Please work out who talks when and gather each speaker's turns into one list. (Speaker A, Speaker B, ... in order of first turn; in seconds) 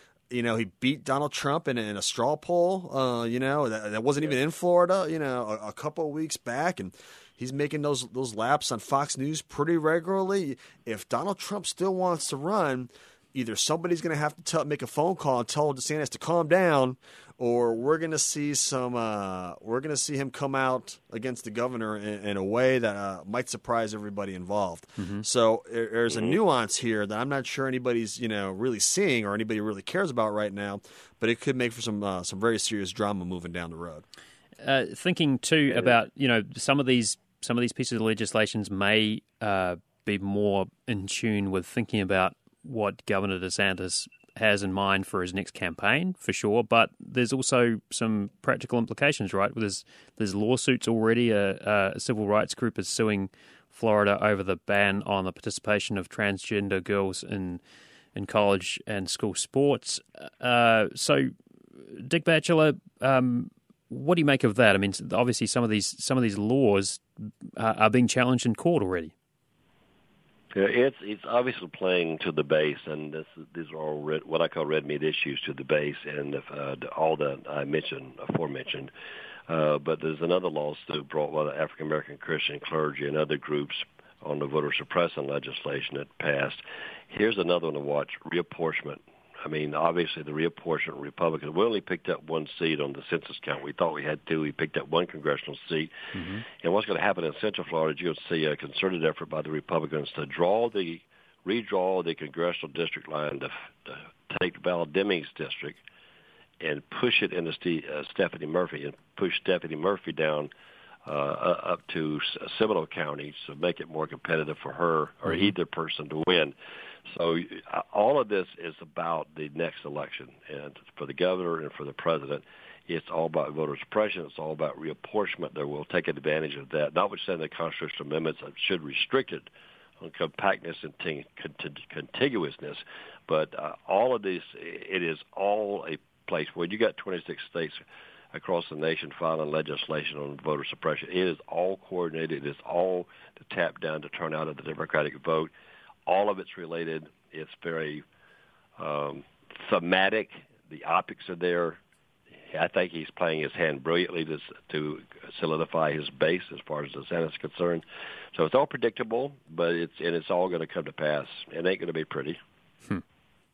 Speaker A: 0.3-34.0
Speaker B: 25.0-25.2, 34.6-57.6, 58.1-61.3, 61.9-67.0, 67.6-69.1, 96.2-96.4
Speaker C: 26.1-26.4, 70.5-78.9, 79.5-95.9, 96.6-105.8, 106.6-110.5, 111.1-116.5, 117.1-129.5, 130.0-137.8, 138.3-145.5, 146.1-148.0, 148.8-151.8, 152.5-162.4